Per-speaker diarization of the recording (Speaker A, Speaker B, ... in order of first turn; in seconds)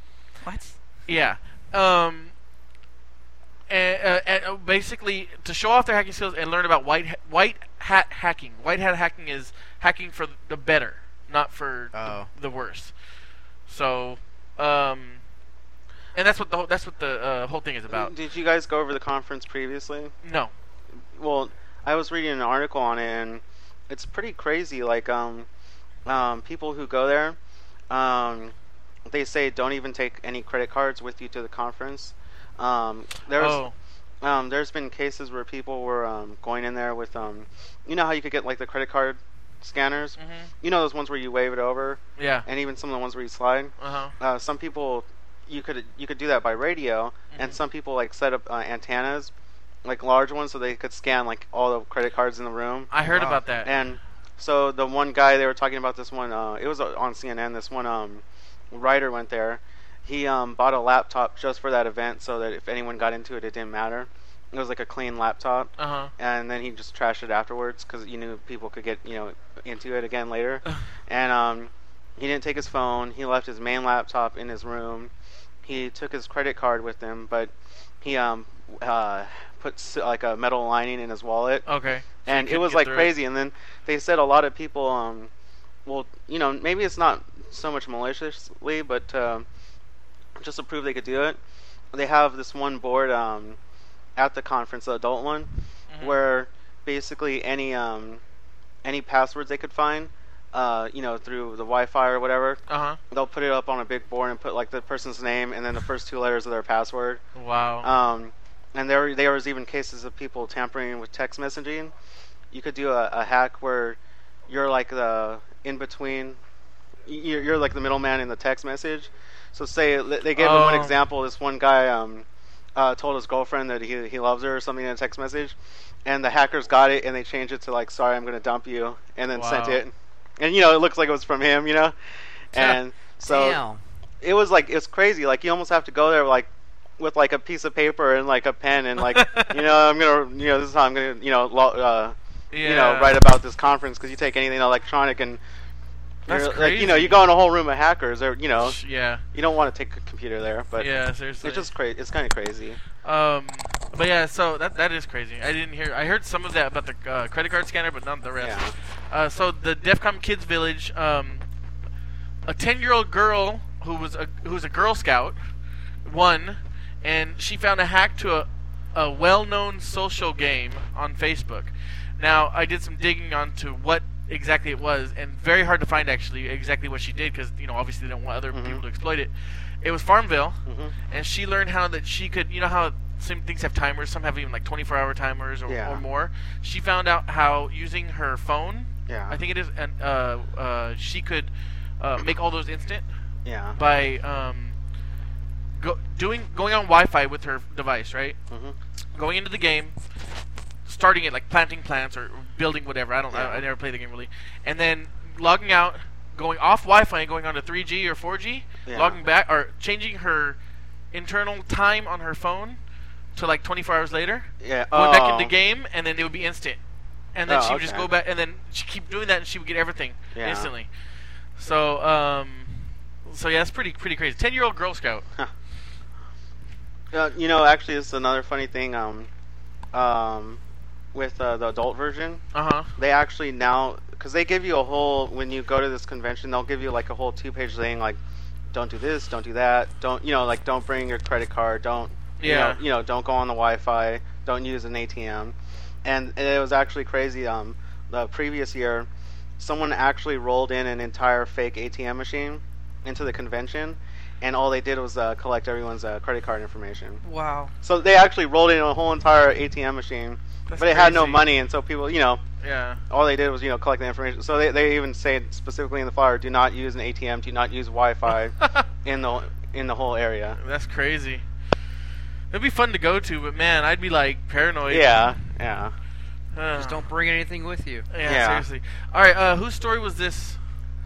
Speaker A: 0.4-0.8, 11.9-12.3, 133.2-133.8, 257.2-257.7, 276.7-278.1
Speaker B: 1.1-2.3, 3.7-12.9, 13.7-15.2, 16.1-18.1, 20.2-20.5, 33.4-33.7, 40.2-40.5, 42.2-42.5, 43.8-44.1, 47.3-47.6, 52.9-53.7, 65.8-66.1, 81.7-83.1, 95.9-96.2, 102.7-103.0, 107.4-107.9, 120.4-121.0, 129.3-129.8, 139.0-139.7, 142.5-143.2, 146.3-147.2, 148.6-149.2, 150.8-151.7, 153.0-161.4, 162.5-165.4, 166.1-193.1, 193.7-194.8, 195.8-198.4, 199.2-200.0, 200.9-210.6, 211.1-212.8, 213.3-216.8, 217.3-220.9, 221.6-225.2, 232.5-232.9, 242.4-242.8, 260.7-261.5, 262.6-263.0, 270.6-271.5, 272.5-275.2, 276.5-277.1, 278.1-280.6
Speaker C: 17.9-20.1, 21.2-25.5, 26.1-27.4, 27.9-28.5, 29.1-33.6, 34.2-49.3, 49.9-52.9, 53.5-75.1, 75.7-81.7, 82.2-85.3, 85.8-89.5, 90.4-91.4, 91.9-93.6, 94.2-95.5, 96.0-98.2, 98.8-107.2, 107.8-111.9, 112.5-114.0, 114.5-116.4, 117.1-131.9, 132.5-133.6, 134.2-145.4, 146.3-148.8, 149.3-152.8, 158.4-158.7, 178.5-178.8, 180.7-180.9, 185.7-186.0, 189.1-189.4, 193.4-193.8, 198.5-198.8, 203.3-203.7, 208.9-209.2, 214.6-215.5, 217.5-218.1, 220.3-220.7, 227.1-229.3, 229.9-230.6, 231.1-232.4, 233.0-238.2, 238.7-249.1, 249.6-257.2, 257.8-262.4, 263.1-270.6, 274.9-275.9, 278.2-278.7